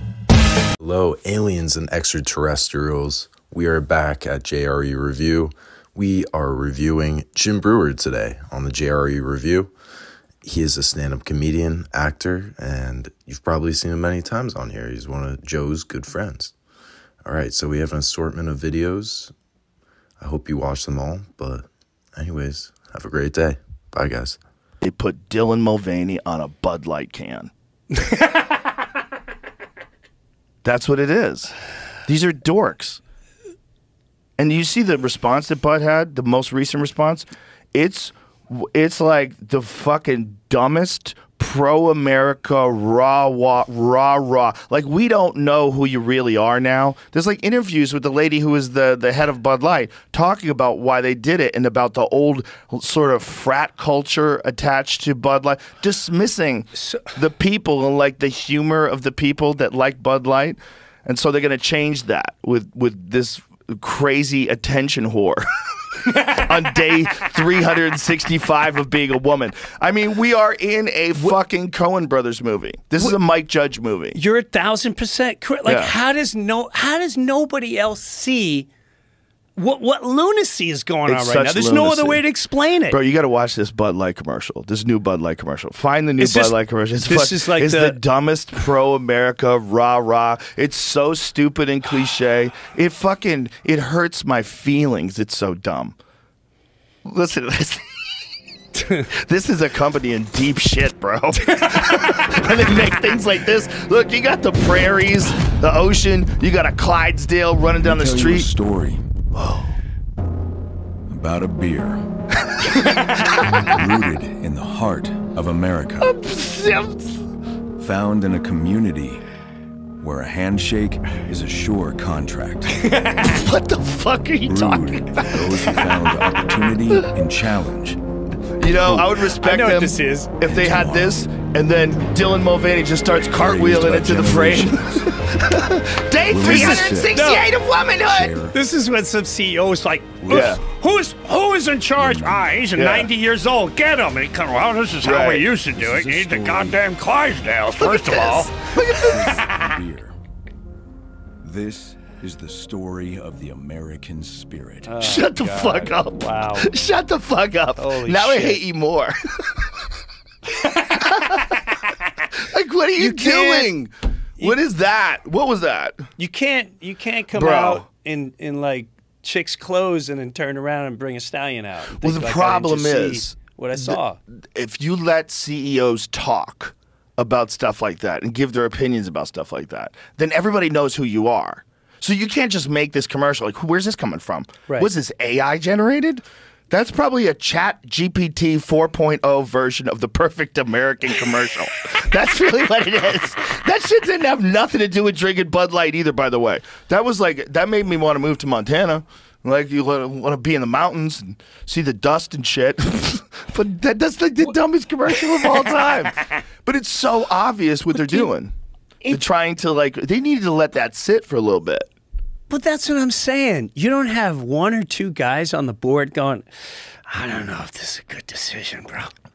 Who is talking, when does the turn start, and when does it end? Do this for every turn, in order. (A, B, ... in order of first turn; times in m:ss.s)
0:00.8-0:09.7 A
0:10.4-0:16.5 A
0:17.2-0:19.3 A
0:20.2-0:24.4 A
0:24.8-0:27.5 B
0:30.6-0:31.5 B
0:32.0-0:33.0 B
0:34.4-1:14.2 B
1:14.1-1:18.7 C
1:15.6-1:15.9 B
1:19.6-1:23.0 C
1:21.0-1:22.2 B
1:22.9-1:36.0 B
1:26.2-1:28.0 C
1:37.0-1:37.8 B
1:39.0-1:48.5 B
1:47.8-1:49.0 D
1:49.3-1:49.7 B
1:51.1-1:52.0 D
1:53.4-1:53.7 B
1:53.6-1:56.1 D
1:56.0-1:57.2 B
1:57.8-1:59.2 D
2:00.0-2:02.8 D
2:02.9-2:03.3 C
2:03.2-2:05.9 B
2:04.4-2:08.0 D
2:08.6-2:18.4 B
2:08.6-2:09.2 D
2:09.3-2:10.4 C
2:10.4-2:11.2 D
2:13.1-2:15.1 D
2:16.2-2:17.2 D
2:16.4-2:17.5 C
2:17.9-2:18.6 D
2:18.5-2:29.4 C
2:20.2-2:20.5 D
2:20.3-2:20.6 B
2:22.0-2:22.6 D
2:22.7-2:23.1 B
2:25.0-2:25.5 B
2:25.6-2:26.8 D
2:27.8-2:29.2 B
2:29.0-2:30.2 D
2:31.4-2:35.0 D
2:34.8-2:36.7 C
2:35.0-2:39.8 B
2:37.8-2:38.6 C
2:40.9-2:41.4 C
2:40.9-2:41.5 B
2:42.3-2:46.0 B
2:43.0-2:43.7 C
2:46.2-2:54.2 C
2:47.3-2:47.8 B
2:52.0-2:54.0 B
2:54.5-3:28.5 B
3:29.0-3:31.9 B
3:32.5-3:36.5 C
3:37.1-3:39.1 C